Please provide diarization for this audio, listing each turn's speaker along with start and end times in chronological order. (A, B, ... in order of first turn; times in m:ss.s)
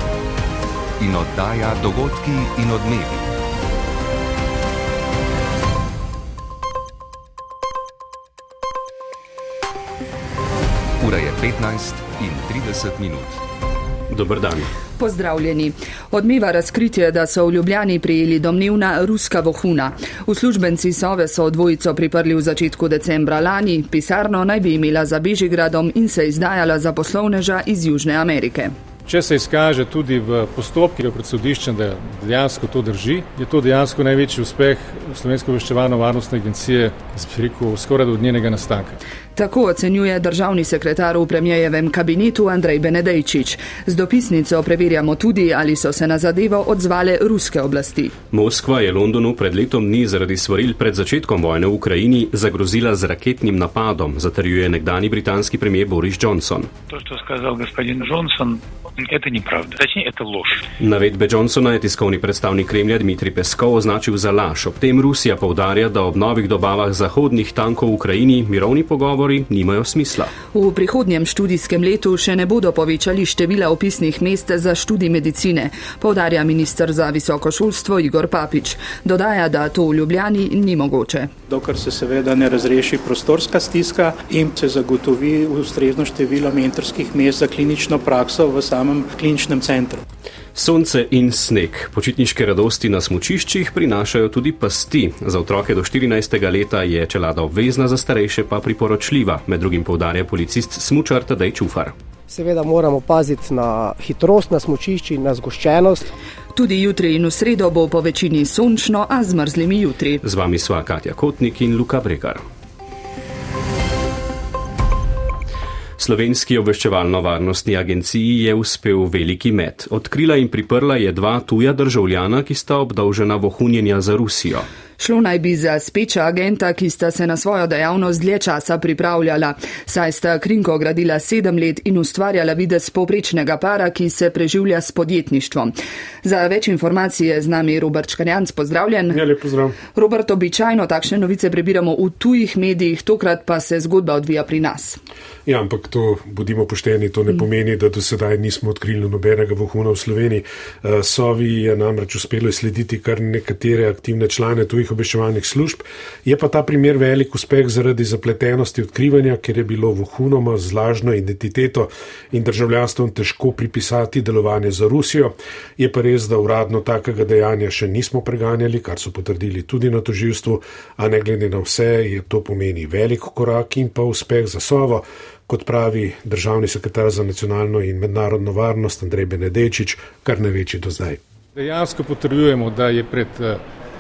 0:01.0-0:03.3 A
0:11.0-0:13.4 A
0:14.1-0:14.7 B
0:15.0-0:28.8 C
0:29.0-0:39.0 D
0:39.4-0:48.1 C
0:48.3-0:56.7 B
0:56.9-1:00.7 E
1:00.8-1:10.3 B
1:10.5-1:21.3 C
1:21.5-1:30.0 F
1:30.6-1:41.9 B
1:42.3-1:46.1 G
1:46.6-1:50.2 C
1:50.2-1:52.4 B
1:56.0-2:04.7 B
2:05.0-2:15.7 C
2:16.2-2:19.2 C
2:19.1-2:19.8 H
2:20.0-2:25.0 C
2:25.5-3:01.2 H
3:01.6-3:03.6 D